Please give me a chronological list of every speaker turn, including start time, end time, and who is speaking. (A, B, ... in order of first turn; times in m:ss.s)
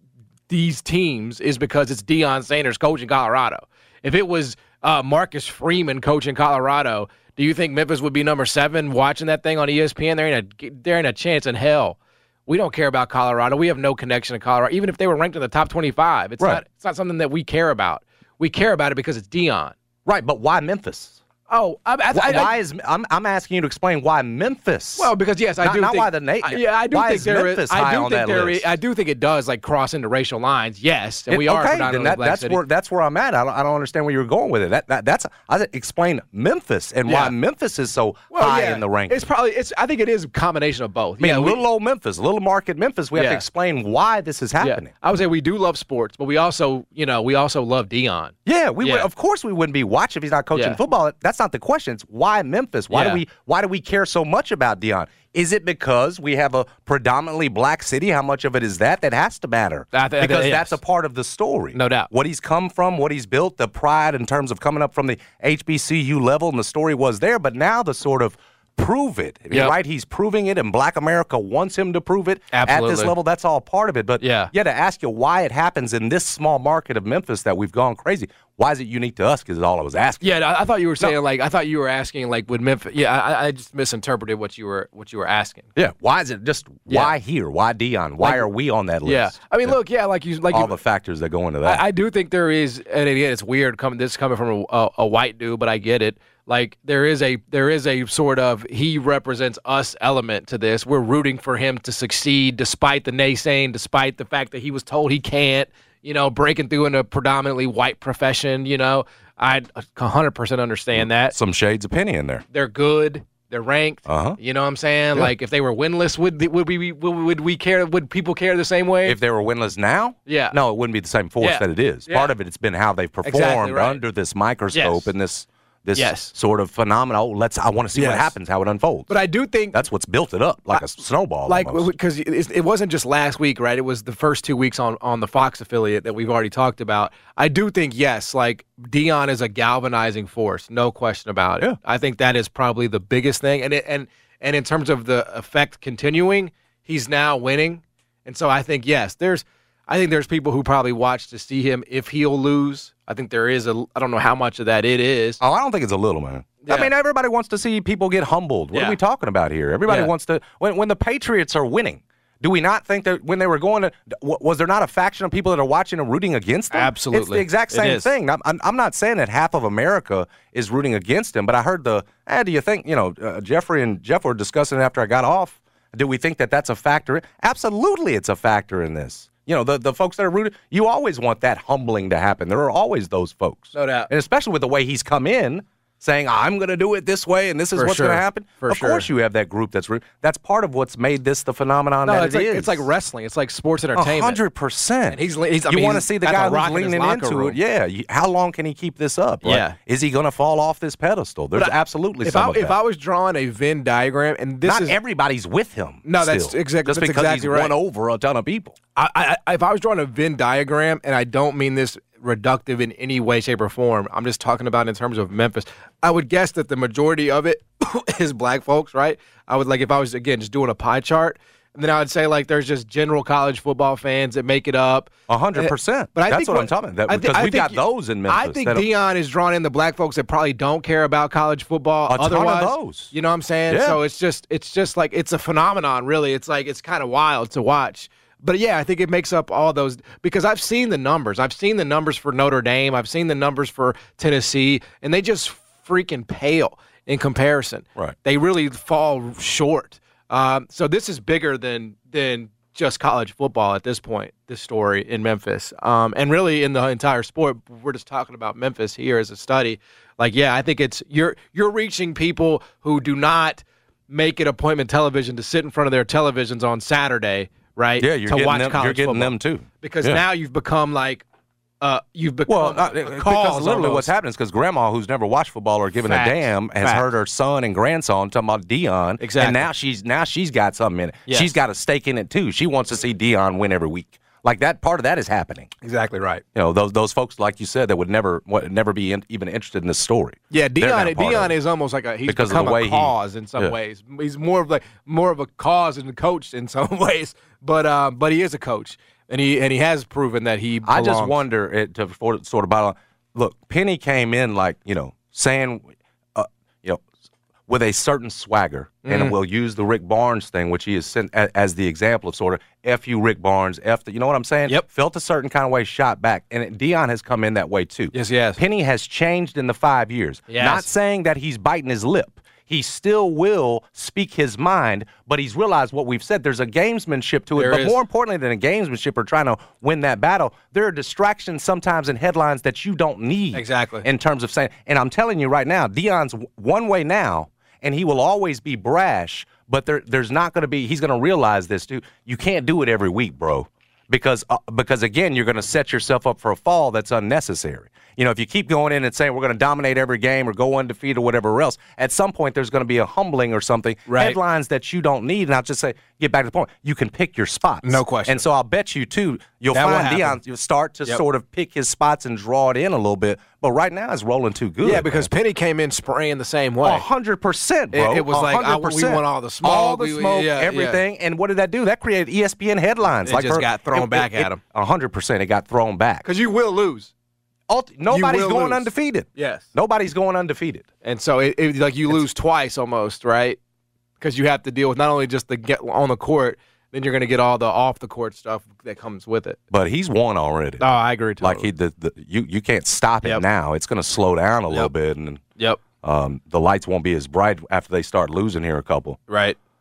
0:00.5-0:19.7 A
0:20.0-0:21.2 B
0:21.5-0:22.5 A
0:22.1-0:28.7 B
0:25.0-0:32.6 A
0:31.3-0:39.2 B
0:37.0-0:37.3 A
0:38.3-0:41.6 A
0:41.2-0:44.9 B
0:43.1-0:43.4 A
0:44.6-0:49.1 A
0:48.4-1:20.4 B
0:52.9-0:53.2 A
0:59.9-1:00.8 A
1:01.7-1:02.1 A
1:12.5-1:13.1 A
1:14.2-1:14.5 A
1:20.2-1:25.7 A
1:25.8-1:29.8 B
1:26.9-1:27.1 A
1:28.2-1:28.4 A
1:29.0-1:30.8 A
1:30.5-1:31.8 B
1:31.6-1:51.3 A
1:51.2-1:52.4 B
1:52.5-1:59.2 A
1:54.1-1:54.4 B
1:59.0-2:09.1 B
2:00.3-2:00.6 A
2:01.4-2:02.3 A
2:03.2-2:04.0 A
2:04.7-2:05.1 A
2:05.9-2:06.3 A
2:07.9-2:08.3 A
2:09.1-2:09.8 A
2:09.7-2:11.9 B
2:11.5-2:35.4 A
2:35.4-3:12.8 B
2:36.6-2:36.9 A
2:38.7-2:39.0 A
2:46.7-2:48.1 A
3:03.7-3:04.1 A
3:07.7-3:09.1 A
3:12.0-3:14.4 A
3:14.0-3:22.7 B
3:15.1-3:17.6 A
3:19.4-3:19.8 A
3:21.6-3:25.0 A
3:24.6-3:28.8 B
3:26.0-3:27.7 A
3:29.0-4:31.2 A
3:45.3-3:48.9 B
3:52.1-3:53.1 B
3:53.7-3:54.0 B
4:28.0-4:30.2 B
4:31.8-4:34.1 A
4:32.5-4:45.7 B
4:36.0-4:37.0 A
4:39.2-4:39.7 A
4:41.3-4:41.5 A
4:45.8-4:46.4 A
4:46.5-4:51.5 B
4:50.5-5:01.4 A
4:52.2-4:53.7 B
5:00.9-5:07.0 B
5:07.7-6:05.3 B
5:09.0-5:09.3 A
5:18.1-5:18.6 A
5:20.5-5:20.9 A
5:27.6-5:28.0 A
5:33.5-5:34.0 A
5:54.1-5:54.4 A
5:57.8-5:58.4 A
5:59.7-6:00.4 A
6:04.8-6:07.0 A
6:06.8-6:16.2 B
6:07.9-6:11.0 A
6:13.2-6:14.6 A
6:16.2-6:17.1 A
6:17.7-6:20.9 B
6:18.1-6:19.6 A
6:21.0-6:23.6 A
6:24.2-6:29.6 A
6:29.7-6:30.9 B
6:30.8-6:31.7 A
6:31.4-6:35.4 B
6:36.0-6:39.2 B
6:39.3-6:39.6 A